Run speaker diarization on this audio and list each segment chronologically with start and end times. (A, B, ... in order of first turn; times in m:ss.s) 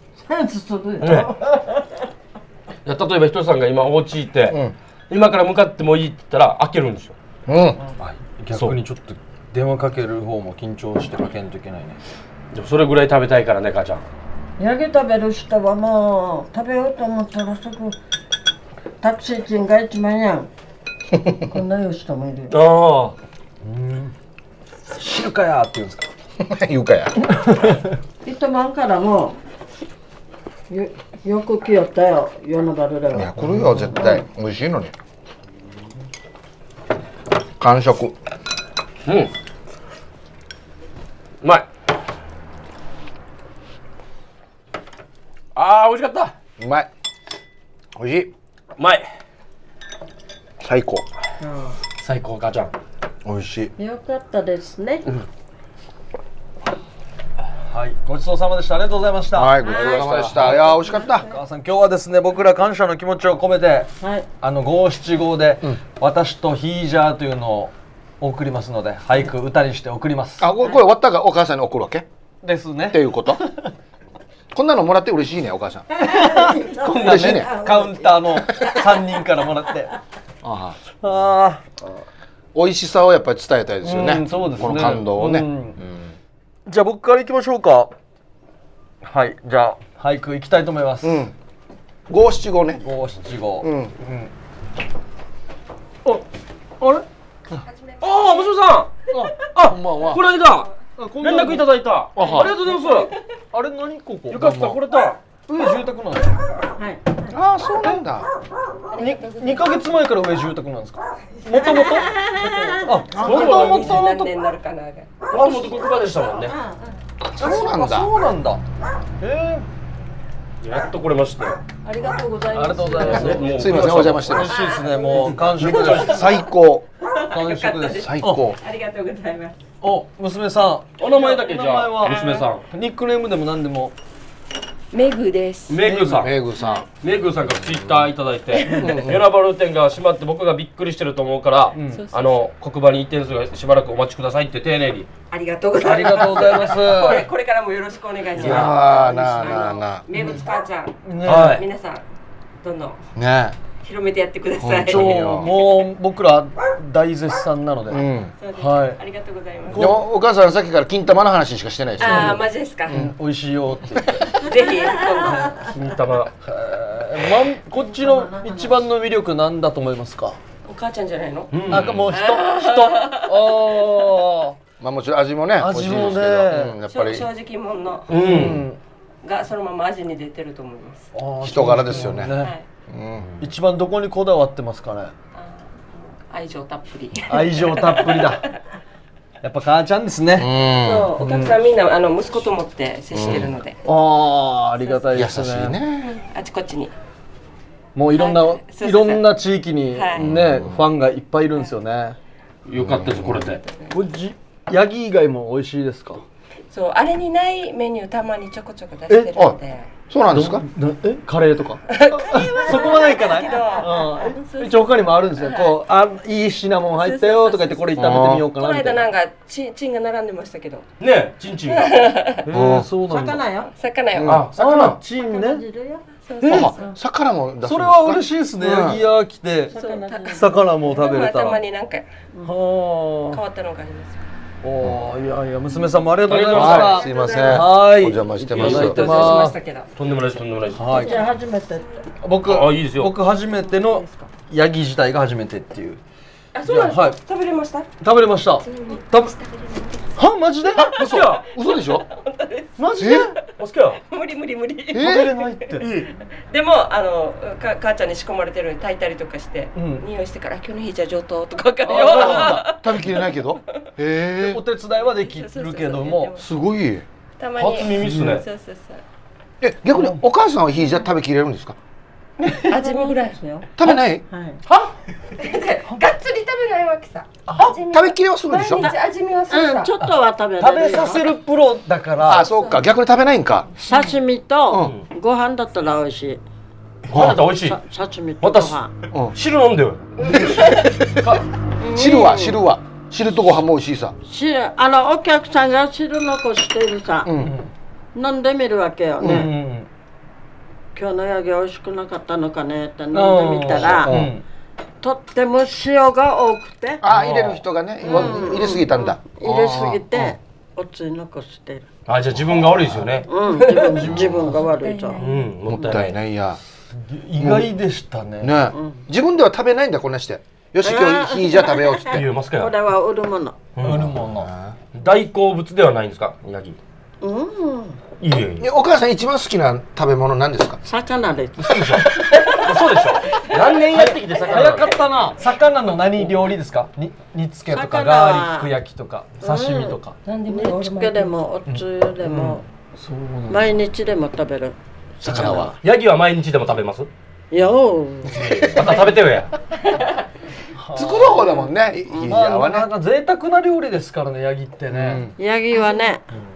0:00.2-0:01.9 A
0:01.0-0:01.3 B
0:02.8-0:04.6 B
0:04.5-0:04.7 C
0:05.1-0:07.1 B
0:07.5-0:07.8 C
0:08.0-0:12.0 D
0:12.5-0:14.0 B
0:14.6-0:18.0 A
0:19.0-0:20.5 A
0:21.4-0:22.6 A
0:22.5-0:23.1 B
0:23.6-0:24.1 D
0:25.0-0:26.1 D
0:26.4-0:27.6 C
0:27.4-0:27.8 D
0:28.2-0:29.4 A
0:30.7-0:33.4 A
0:33.1-0:34.9 C
0:33.4-0:33.9 D
0:33.9-0:34.2 A
0:37.6-0:38.2 C
0:39.0-0:39.3 B
0:41.4-0:41.7 B
0:45.5-0:46.3 B
0:46.6-0:46.9 C
0:48.0-0:48.3 C
0:48.8-0:49.1 B
0:50.6-0:51.1 C
0:51.4-0:51.8 A
0:52.0-0:52.7 B
0:53.2-0:53.7 C
0:53.8-0:55.2 A
0:57.7-1:10.5 D
0:59.3-1:01.3 C
0:59.6-1:01.3 A
0:59.7-1:00.0 E
1:04.0-1:04.3 A
1:10.4-1:12.0 C
1:12.4-1:13.7 D
1:12.9-1:13.4 C
1:14.5-1:15.9 C
1:16.0-1:18.8 A
1:16.0-1:19.9 D
1:16.8-1:17.6 C
1:20.4-1:20.8 C
1:21.0-1:21.7 D
1:22.5-1:26.2 C
1:23.8-1:25.8 D
1:26.7-1:27.9 D
1:29.0-1:31.2 D
1:31.0-1:31.3 C
1:32.1-1:32.8 C
1:32.8-1:34.3 D
1:33.6-1:33.9 C
1:36.8-1:37.6 D
1:37.6-1:38.7 E
1:38.0-1:38.9 B
1:39.4-1:43.1 B
1:39.6-1:40.2 C
1:41.0-1:44.4 D
1:42.2-1:42.5 C
1:44.3-1:45.2 B
1:44.3-1:44.8 C
1:45.5-1:46.4 D
1:47.3-1:48.3 C
1:48.9-1:50.0 E
1:49.0-1:52.2 D
1:51.5-1:55.5 E
1:52.3-1:53.0 A
1:52.7-1:54.3 D
1:53.1-1:53.5 C
1:53.2-1:53.9 B
1:55.3-1:56.5 B
1:56.5-1:56.9 A
1:57.3-1:58.1 C
1:57.4-1:58.6 D
1:59.2-1:59.6 D
2:00.6-2:01.6 B
2:01.8-2:03.5 A
2:02.5-2:06.3 D
2:03.0-2:03.3 E
2:03.0-2:04.4 B
2:03.1-2:04.6 C
2:04.3-2:06.3 E
2:04.6-2:05.3 A
2:05.4-2:06.2 B
2:05.6-2:06.9 C
2:07.1-2:09.6 E
2:07.3-2:08.6 D
2:08.0-2:08.6 C
2:09.8-2:13.9 D
2:11.0-2:12.6 B
2:12.1-2:12.5 E
2:14.9-2:15.8 E
2:15.7-2:25.1 B
2:15.9-2:16.2 D
2:15.9-2:16.8 C
2:16.6-2:16.8 E
2:17.6-2:18.0 C
2:18.5-2:19.1 E
2:18.7-2:19.2 C
2:21.7-2:22.0 D
2:21.8-2:22.5 E
2:25.3-2:32.0 E
2:25.8-2:27.2 D
2:28.4-2:30.3 C
2:28.4-2:28.8 B
2:31.0-2:31.6 D
2:31.2-2:31.6 B
2:32.6-2:33.0 E
2:33.2-2:33.6 C
2:33.8-2:35.5 E
2:34.6-2:35.5 C
2:34.9-2:38.0 D
2:37.9-2:38.3 C
2:38.4-2:39.9 E
2:38.6-2:39.0 D
2:39.7-2:40.0 D
2:39.7-2:43.1 C
2:42.0-2:43.0 E
2:42.0-2:44.3 D
2:44.2-2:45.7 E
2:44.7-2:45.3 A
2:45.3-2:45.5 D
2:45.5-2:46.3 B
2:46.4-2:50.4 D
2:47.7-2:48.8 A
2:50.6-2:53.6 E
2:51.5-2:52.0 B
2:51.7-2:54.6 D
2:51.7-2:52.1 C
2:54.8-2:57.3 C
2:55.6-2:56.8 D
2:56.9-2:58.5 E
2:58.1-2:58.6 B
2:58.1-2:58.8 D
2:59.2-3:01.1 E
3:01.1-3:02.5 D
3:01.4-3:02.4 C
3:02.3-3:02.6 E
3:02.9-3:03.3 C
3:03.4-3:05.1 D
3:05.3-3:08.6 E
3:07.3-3:08.4 D
3:09.4-3:10.5 D
3:10.3-3:11.1 C
3:10.5-3:13.8 E
3:11.2-3:11.5 D
3:13.1-3:13.6 C
3:13.8-3:15.8 D
3:14.8-3:15.2 E
3:15.1-3:16.2 C
3:16.1-3:16.9 E
3:17.9-3:22.2 D
3:18.1-3:19.3 E
3:19.9-3:20.2 E
3:20.2-3:20.8 C
3:22.6-3:23.6 B
3:22.7-3:23.4 C
3:23.4-3:24.0 E
3:23.9-3:26.2 D
3:26.7-3:29.9 E
3:30.1-3:30.6 C
3:30.3-3:39.0 D
3:31.9-3:35.8 E
3:37.0-3:40.8 E
3:38.0-3:38.5 C
3:41.0-3:41.9 B
3:41.6-3:42.5 E
3:42.4-3:43.4 D
3:42.5-3:42.9 C
3:43.0-3:43.7 A
3:43.8-3:44.4 E
3:44.1-3:44.9 C
3:44.2-3:45.0 B
3:44.5-3:45.6 D
3:45.1-3:46.1 A
3:46.2-3:47.0 E
3:46.4-3:46.7 D
3:46.4-3:49.0 C
3:47.6-3:51.6 D
3:49.7-3:52.1 E
3:49.7-3:50.5 A
3:52.4-3:53.4 D
3:53.3-3:54.2 E
3:54.6-3:59.6 D
3:54.8-3:55.1 C
3:56.2-3:57.1 B
3:56.5-3:59.0 C
3:56.5-3:57.7 E
3:58.5-3:59.4 B
3:58.6-3:59.9 E
4:00.0-4:00.9 B
4:00.7-4:01.3 D
4:00.8-4:02.0 E
4:00.9-4:01.9 A
4:02.2-4:06.0 D
4:02.4-4:03.1 B
4:03.4-4:04.3 E
4:06.5-4:07.9 E
4:06.6-4:07.2 D
4:08.0-4:09.3 D
4:08.6-4:10.2 E
4:10.2-4:11.0 D
4:10.9-4:11.4 B
4:10.9-4:12.0 C
4:11.4-4:13.4 E
4:12.8-4:13.3 D
4:12.9-4:13.3 C
4:13.6-4:14.0 B
4:14.0-4:23.3 E
4:14.9-4:15.3 C
4:15.0-4:15.9 D
4:15.8-4:16.1 B
4:19.7-4:20.0 D
4:21.8-4:22.6 D
4:22.2-4:24.6 C
4:24.4-4:26.3 D
4:24.9-4:26.5 E
4:26.4-4:27.0 C
4:27.4-4:29.0 E
4:27.6-4:28.4 B
4:27.9-4:28.4 D
4:29.6-4:31.8 C
4:29.9-4:30.2 D
4:32.6-4:33.7 A
4:32.6-4:33.4 E
4:33.8-4:34.2 C
4:34.2-4:34.6 A
4:34.7-4:40.0 E
4:37.5-4:37.8 D
4:37.9-4:38.9 C
4:39.5-4:41.2 A
4:40.0-4:42.5 D
4:42.2-4:42.9 E
4:42.2-4:43.7 C
4:43.8-4:46.4 A
4:43.9-4:44.2 E
4:47.1-4:47.8 B
4:47.1-4:47.5 C
4:47.4-4:48.9 A
4:48.4-4:48.8 B
4:49.3-4:50.1 B
4:50.2-4:54.1 C
4:50.2-4:51.1 E
4:51.8-4:52.2 E
4:52.0-4:52.6 A
4:54.2-4:57.3 A
4:57.2-4:57.5 C
4:57.4-4:57.7 D
4:58.1-4:59.5 A
4:59.2-4:59.5 C
4:59.2-4:59.9 D
5:00.9-5:04.1 A
5:03.1-5:04.4 D
5:03.7-5:04.3 C
5:05.0-5:07.0 A
5:07.0-5:10.4 C
5:07.1-5:07.6 B
5:08.0-5:11.9 A
5:08.0-5:08.3 E
5:12.1-5:13.3 B
5:12.4-5:13.1 C
5:13.3-5:15.2 A
5:13.6-5:14.2 D
5:14.0-5:14.6 C
5:14.6-5:15.6 E
5:15.2-5:16.2 B
5:15.7-5:16.6 C
5:16.9-5:18.5 D
5:17.4-5:17.8 C
5:18.4-5:22.2 C
5:18.7-5:19.0 A
5:20.8-5:23.6 A
5:22.1-5:22.7 B
5:23.8-5:24.1 B
5:23.8-5:24.5 D
5:23.9-5:24.8 C
5:24.9-5:26.8 B
5:27.2-5:28.0 A
5:28.2-5:28.7 B
5:28.6-5:30.8 C
5:30.8-5:32.2 A
5:31.8-5:35.0 B
5:31.8-5:32.5 D
5:32.3-5:32.6 E
5:33.3-5:35.0 E
5:33.6-5:40.2 D
5:37.7-5:38.7 A
5:39.4-5:42.6 A
5:40.2-5:41.4 E
5:41.6-5:43.7 D
5:43.5-5:45.8 A
5:45.2-5:45.7 C
5:45.3-5:45.6 D
5:45.8-5:47.1 B
5:47.5-5:48.5 A
5:48.4-5:48.8 C
5:48.4-5:49.5 B
5:49.8-5:50.2 E
5:50.8-5:51.7 D
5:50.9-5:52.9 C
5:52.2-5:55.3 D
5:54.9-5:55.3 C
5:55.4-5:56.2 A